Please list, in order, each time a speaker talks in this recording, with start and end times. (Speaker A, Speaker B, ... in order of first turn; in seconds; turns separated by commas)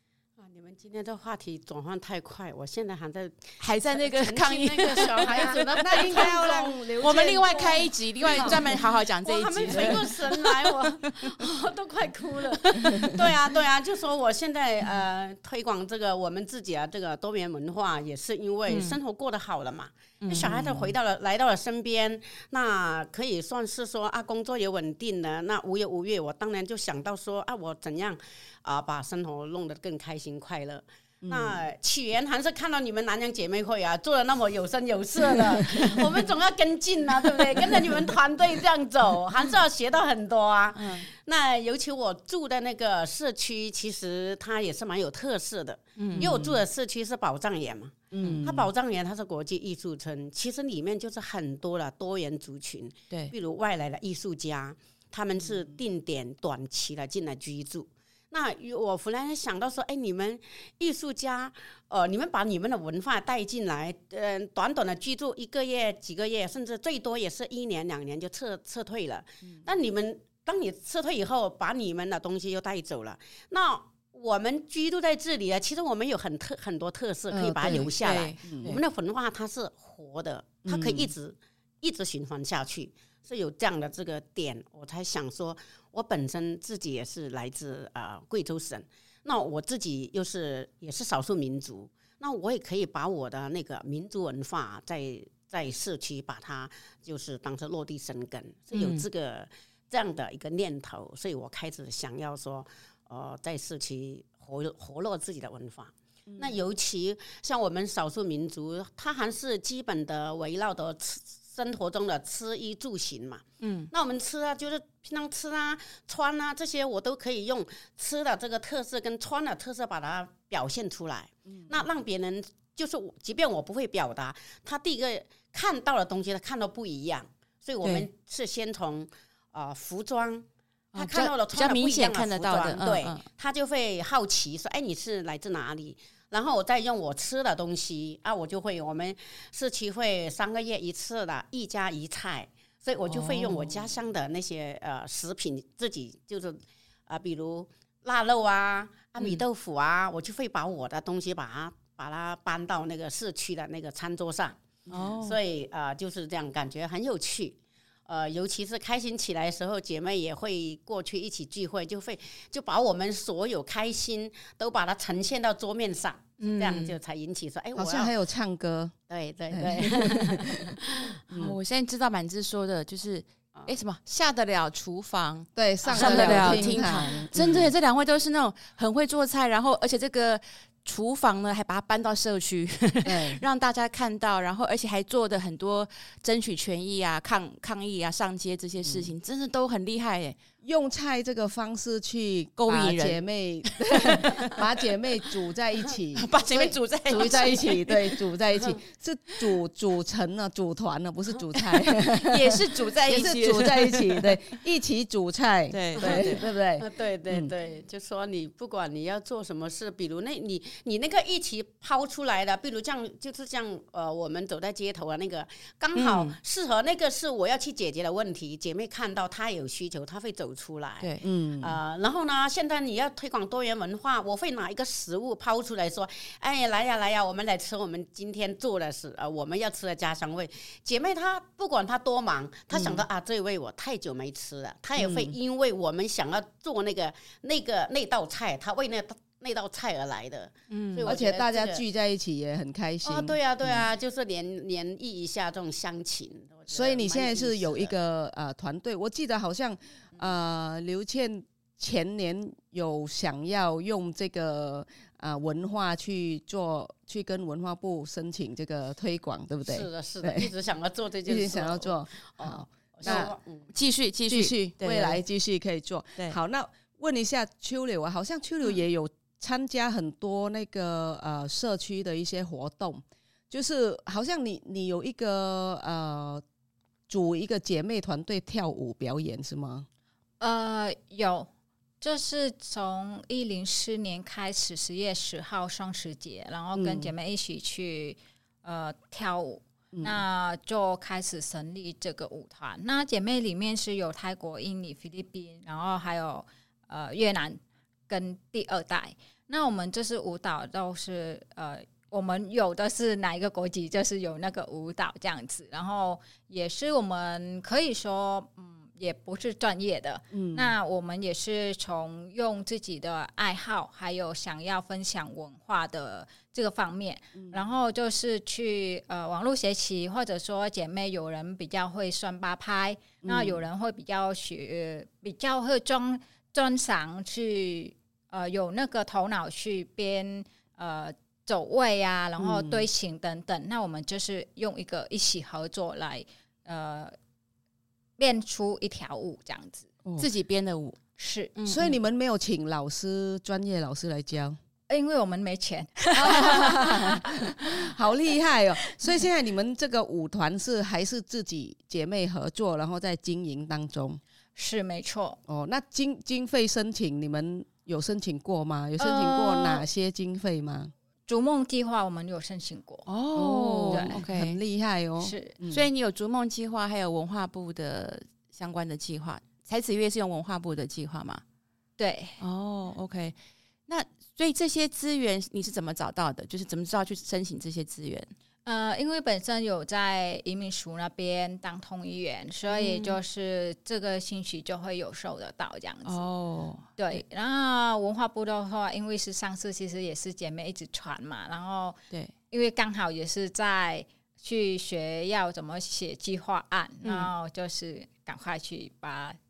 Speaker A: 0.4-154.6, Speaker B: 3.6-11.3, Speaker C: 5.2-8.8, Speaker C: 9.6-10.1, Speaker B: 12.5-13.5, Speaker C: 12.8-13.1, Speaker B: 18.7-19.0, Speaker B: 20.2-20.8, Speaker C: 20.3-20.9, Speaker C: 31.2-31.6, Speaker B: 40.7-41.1, Speaker B: 46.0-46.5, Speaker C: 46.1-46.6, Speaker C: 48.1-48.7, Speaker C: 77.3-78.8, Speaker B: 77.7-78.8, Speaker C: 80.7-81.1, Speaker B: 98.7-99.0, Speaker C: 106.3-106.6, Speaker B: 113.6-113.9, Speaker C: 121.5-121.8, Speaker B: 130.9-133.2, Speaker B: 143.1-143.8, Speaker C: 154.9-155.1, Speaker B: 154.9-155.4, Speaker A: 155.2-168.1, Speaker B: 166.4-167.0, Speaker C: 167.7-168.9, Speaker A: 169.1-171.1, Speaker C: 169.5-170.8, Speaker C: 171.3-171.6, Speaker B: 171.3-190.4, Speaker C: 175.5-177.7, Speaker A: 175.8-177.6, Speaker C: 183.0-183.4, Speaker C: 188.8-189.1, Speaker C: 190.6-207.5, Speaker B: 192.6-194.6, Speaker B: 196.1-198.2, Speaker A: 197.1-197.8, Speaker B: 201.6-204.5, Speaker B: 205.7-206.4, Speaker A: 206.0-241.8, Speaker B: 215.9-216.3, Speaker C: 221.2-221.8, Speaker C: 232.7-233.0, Speaker C: 235.0-235.3, Speaker B: 240.7-241.1, Speaker C: 241.0-243.9, Speaker A: 243.0-247.9, Speaker C: 246.7-260.5, Speaker A: 259.7-263.7, Speaker C: 261.2-263.3, Speaker B: 263.0-265.2, Speaker C: 264.3-276.4, Speaker C: 277.1-279.9, Speaker D: 280.4-281.5, Speaker D: 282.0-337.1, Speaker C: 286.7-287.1, Speaker C: 289.9-290.2, Speaker C: 310.3-310.7, Speaker C: 317.3-317.6, Speaker C: 323.2-323.6, Speaker C: 332.4-332.9, Speaker D: 338.2-339.9, Speaker B: 340.2-341.0, Speaker D: 341.2-341.5, Speaker B: 341.6-341.9, Speaker C: 341.6-344.6, Speaker D: 344.9-347.4, Speaker C: 346.1-354.2, Speaker D: 354.6-355.4, Speaker C: 355.5-360.9, Speaker D: 359.0-359.8, Speaker D: 361.3-363.0, Speaker B: 363.1-364.6, Speaker C: 363.3-365.9, Speaker D: 363.9-364.2, Speaker D: 365.2-365.6, Speaker B: 365.7-371.4, Speaker D: 372.0-372.4, Speaker B: 372.4-373.4, Speaker B: 373.9-378.3, Speaker D: 378.6-386.2, Speaker B: 382.7-383.2, Speaker B: 386.1-387.2, Speaker D: 387.0-392.0, Speaker D: 392.5-399.4, Speaker B: 397.0-397.3